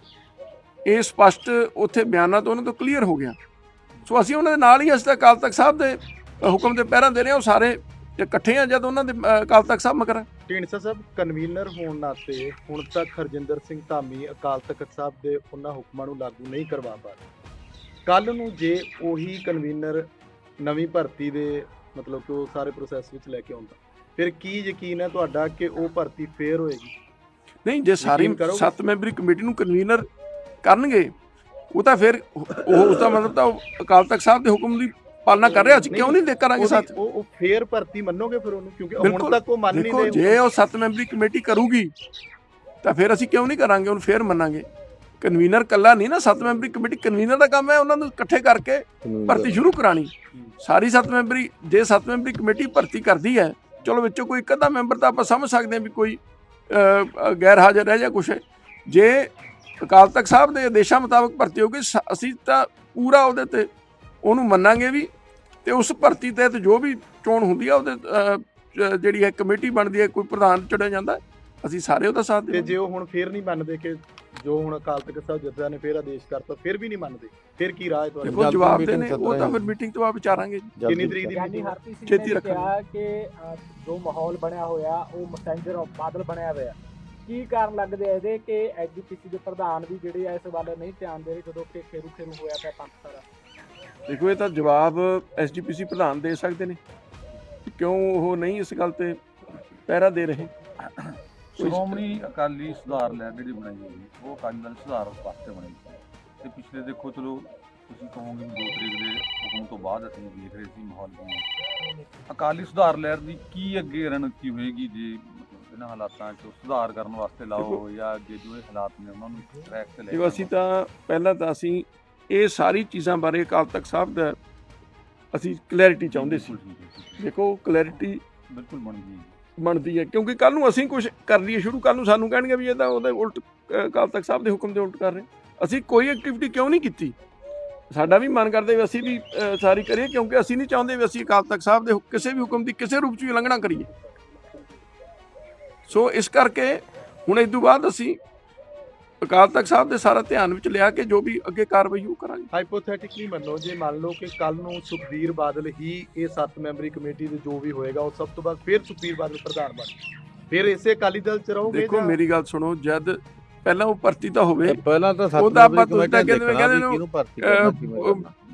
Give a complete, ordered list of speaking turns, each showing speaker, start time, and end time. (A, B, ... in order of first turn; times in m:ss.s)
0:00.8-0:03.4 A
0:04.1-0:10.2 A
0:10.5-0:17.2 B
0:18.0-0:20.1 B
0:20.6-0:26.9 B
0:27.6-0:30.1 A
0:28.0-0:28.7 B
0:30.6-0:31.1 A
0:31.7-0:36.9 A
0:35.4-0:40.4 B
0:39.0-0:41.9 A
0:42.8-0:44.6 A
0:45.2-0:56.2 A
0:49.0-0:49.6 C
0:56.7-0:59.3 A
0:59.8-1:03.7 A
1:04.2-1:05.1 A
1:05.6-1:12.7 A
1:12.5-1:19.0 B
1:18.2-1:19.7 C
1:18.2-1:20.7 A
1:20.8-1:21.4 C
1:20.8-1:21.8 B
1:21.3-1:33.2 D
1:22.0-1:22.7 A
1:34.1-1:36.8 A
1:37.7-1:39.2 A
1:39.9-1:40.5 A
1:41.0-1:51.4 E
1:41.6-1:42.0 A
1:52.3-2:00.5 E
2:00.1-2:04.4 A
2:05.3-2:06.6 A
2:06.1-2:07.3 E
2:07.2-2:08.2 A
2:08.5-2:09.4 E
2:09.6-2:17.1 A
2:17.9-2:23.9 A
2:25.9-2:28.2 A
2:29.2-2:32.5 A
2:32.5-2:39.9 B
2:40.5-2:42.2 B
2:41.7-2:44.8 A
2:44.6-2:48.3 C
2:45.4-2:48.2 A